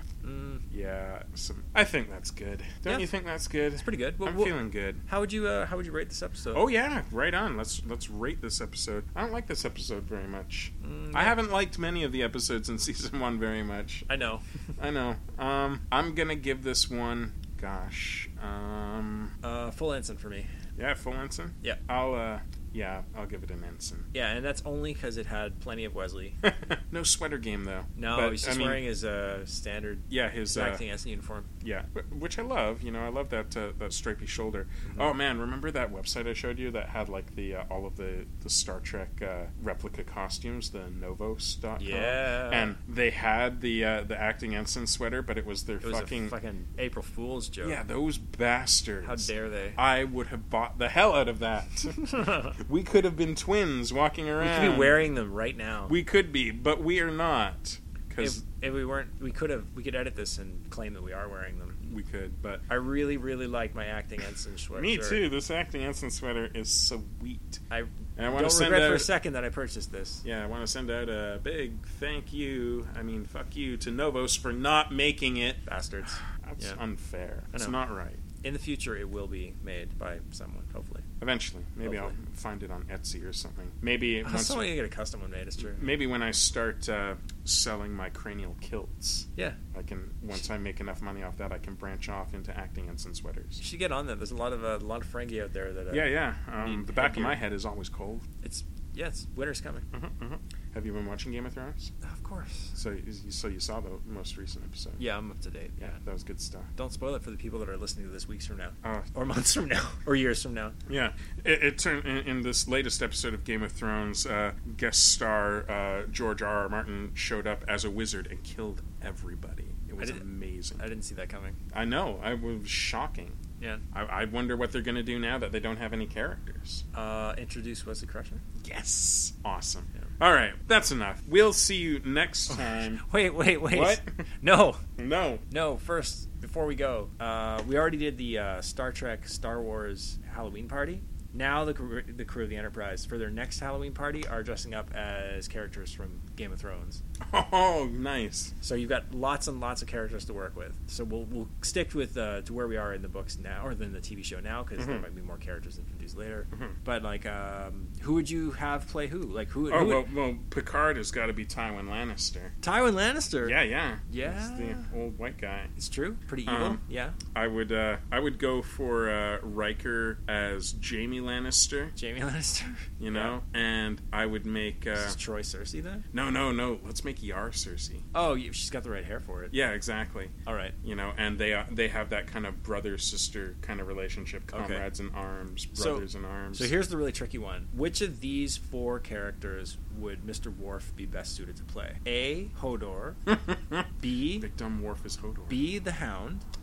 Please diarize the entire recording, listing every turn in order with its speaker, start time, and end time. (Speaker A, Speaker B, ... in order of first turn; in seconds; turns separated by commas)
Speaker A: 0.2-0.6, Speaker B: 0.7-5.0, Speaker A: 3.8-6.6, Speaker B: 6.5-14.2, Speaker A: 10.8-11.4, Speaker A: 14.1-14.6, Speaker B: 14.8-19.3, Speaker A: 19.4-20.5, Speaker B: 20.8-24.1, Speaker A: 24.1-26.4, Speaker B: 26.4-28.8, Speaker A: 27.9-31.5, Speaker B: 30.1-30.8, Speaker B: 31.6-46.3, Speaker A: 34.8-35.1, Speaker A: 41.8-42.8, Speaker A: 45.8-47.8, Speaker B: 47.6-55.0, Speaker A: 49.0-49.8, Speaker A: 51.9-52.5, Speaker A: 54.4-55.9, Speaker B: 55.9-58.4, Speaker A: 58.2-61.8, Speaker B: 61.8-62.6, Speaker A: 62.7-65.2, Speaker B: 64.7-67.6, Speaker A: 67.7-70.2, Speaker B: 68.2-69.1, Speaker B: 70.2-75.6, Speaker A: 75.7-76.8, Speaker B: 76.4-78.2, Speaker A: 77.5-77.8, Speaker A: 78.4-81.1, Speaker B: 81.2-84.7, Speaker A: 81.8-82.1, Speaker A: 84.2-85.9, Speaker B: 85.6-93.6, Speaker A: 93.6-97.4, Speaker B: 95.9-98.2, Speaker A: 98.4-99.8, Speaker B: 99.9-101.9, Speaker A: 102.0-102.8, Speaker B: 102.7-105.0, Speaker A: 105.0-106.0, Speaker B: 105.8-106.7, Speaker A: 106.8-110.8, Speaker B: 110.9-120.8, Speaker A: 120.0-120.2, Speaker A: 120.8-121.6, Speaker B: 121.7-123.4, Speaker B: 123.9-126.8, Speaker A: 126.9-128.4, Speaker B: 128.6-133.0, Speaker A: 132.5-134.8, Speaker B: 133.7-134.1, Speaker B: 135.0-135.4, Speaker A: 135.5-147.0, Speaker B: 147.2-148.5, Speaker A: 148.6-160.1, Speaker B: 154.8-155.0, Speaker B: 159.7-162.5, Speaker A: 162.6-164.9, Speaker B: 163.4-165.7, Speaker A: 165.8-167.2, Speaker B: 166.4-166.8, Speaker B: 167.3-171.9, Speaker A: 171.9-173.3, Speaker B: 173.0-175.2, Speaker A: 175.0-176.0, Speaker B: 176.1-178.0, Speaker A: 178.1-179.5, Speaker B: 179.5-186.7, Speaker A: 180.4-180.7, Speaker A: 184.5-184.8, Speaker A: 185.8-193.2, Speaker B: 193.3-193.9, Speaker A: 194.0-194.5, Speaker B: 194.4-195.6, Speaker A: 195.5-196.4